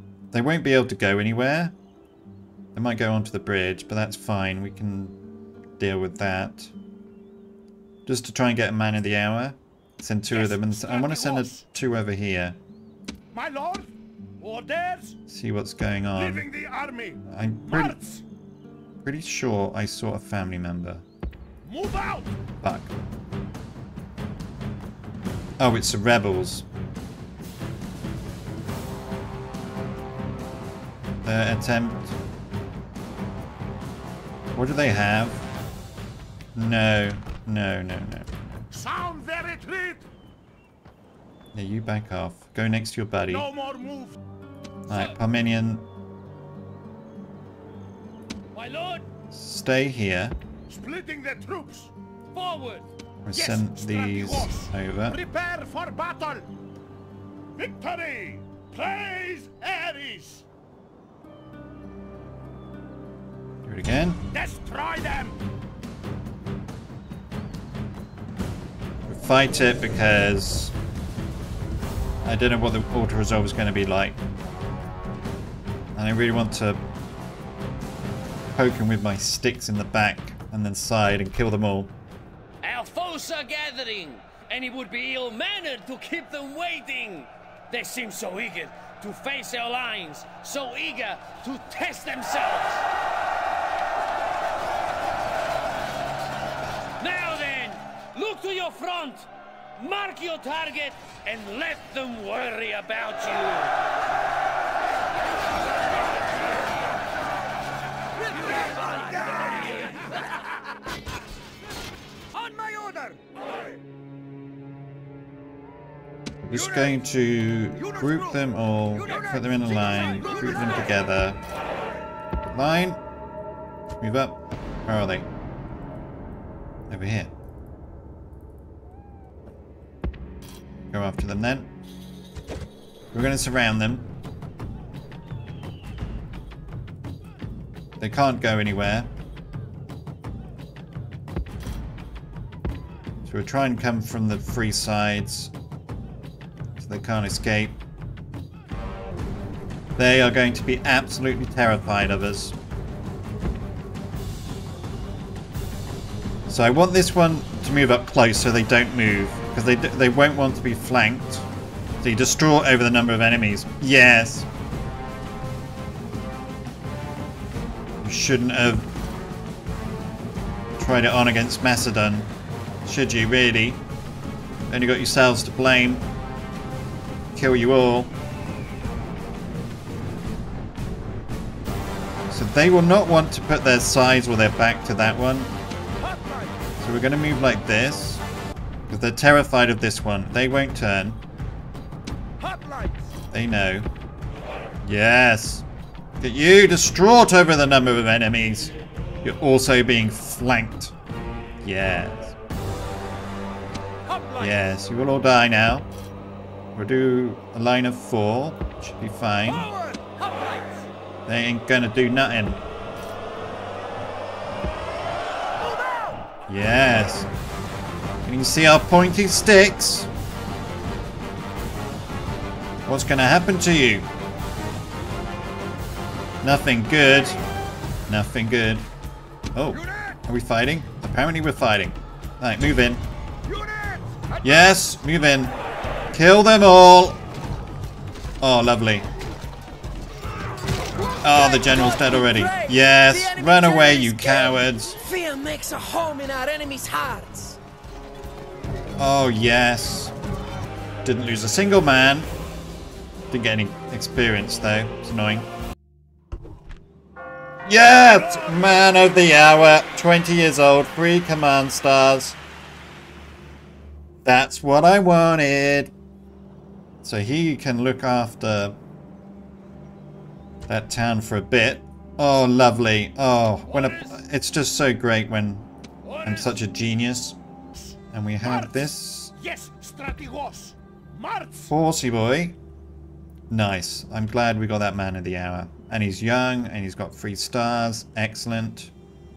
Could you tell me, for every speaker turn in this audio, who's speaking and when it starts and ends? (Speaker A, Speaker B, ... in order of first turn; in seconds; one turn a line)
Speaker A: 0.3-1.8
Speaker A: 2.8-5.2
Speaker A: 5.8-6.7
Speaker A: 8.1-12.6
Speaker B: 10.3-11.6
Speaker B: 13.3-15.2
Speaker A: 15.3-16.5
Speaker B: 16.1-18.2
Speaker A: 17.2-18.0
Speaker A: 19.0-21.1
Speaker B: 21.6-22.4
Speaker A: 22.6-22.9
Speaker A: 25.6-26.6
Speaker A: 31.2-32.2
Speaker A: 34.5-35.5
Speaker A: 36.5-38.3
Speaker B: 38.7-40.1
Speaker A: 41.5-43.5
Speaker B: 43.3-44.2
Speaker A: 44.9-45.9
Speaker C: 44.9-45.1
Speaker C: 48.5-49.1
Speaker A: 49.3-50.4
Speaker B: 50.7-51.9
Speaker C: 52.3-52.9
Speaker A: 53.2-55.2
Speaker B: 53.3-56.5
Speaker B: 57.6-60.4
Speaker A: 63.6-64.2
Speaker B: 64.3-65.4
Speaker A: 69.1-70.7
Speaker A: 72.2-74.2
Speaker A: 76.0-76.8
Speaker A: 78.5-81.9
Speaker C: 82.6-92.9
Speaker C: 97.0-103.7
Speaker B: 108.2-110.0
Speaker C: 108.9-109.8
Speaker B: 112.4-113.2
Speaker A: 116.4-121.4
Speaker B: 119.0-120.8
Speaker A: 122.4-123.0
Speaker A: 124.0-125.3
Speaker A: 126.9-127.3
Speaker A: 130.9-131.7
Speaker A: 133.1-134.1
Speaker A: 138.0-139.1
Speaker A: 143.2-145.5
Speaker A: 146.8-147.8
Speaker A: 150.0-152.6
Speaker A: 156.5-161.5
Speaker A: 162.0-164.5
Speaker A: 168.0-168.9
Speaker A: 170.8-172.3
Speaker A: 172.8-173.8
Speaker A: 174.7-176.1
Speaker A: 177.3-178.1
Speaker A: 182.3-185.5
Speaker B: 186.0-186.6
Speaker A: 186.8-188.2
Speaker A: 188.9-191.2
Speaker B: 192.4-193.1
Speaker A: 193.3-193.9
Speaker A: 194.8-195.6
Speaker A: 196.2-200.9
Speaker A: 201.6-202.4
Speaker B: 204.1-204.6
Speaker A: 204.4-205.9
Speaker A: 206.8-209.7
Speaker B: 209.5-210.9
Speaker A: 211.2-212.6
Speaker B: 215.7-216.1
Speaker A: 216.5-217.3
Speaker A: 218.2-220.1
Speaker A: 222.9-224.1
Speaker A: 226.4-227.4
Speaker A: 228.1-228.9
Speaker A: 229.5-233.1
Speaker B: 233.4-234.6
Speaker A: 234.4-235.6
Speaker A: 236.1-237.2
Speaker A: 238.4-239.1
Speaker A: 241.2-245.0
Speaker D: 241.2-247.6
Speaker A: 249.0-250.1
Speaker A: 251.0-252.3
Speaker A: 253.3-255.5
Speaker A: 257.6-262.4
Speaker B: 258.2-258.7
Speaker A: 264.2-265.9
Speaker A: 267.0-268.8
Speaker A: 270.7-275.7
Speaker B: 273.7-274.1
Speaker B: 276.0-276.5
Speaker A: 276.2-277.4
Speaker B: 277.7-281.7
Speaker A: 278.1-279.3
Speaker A: 281.7-282.6
Speaker A: 283.5-288.9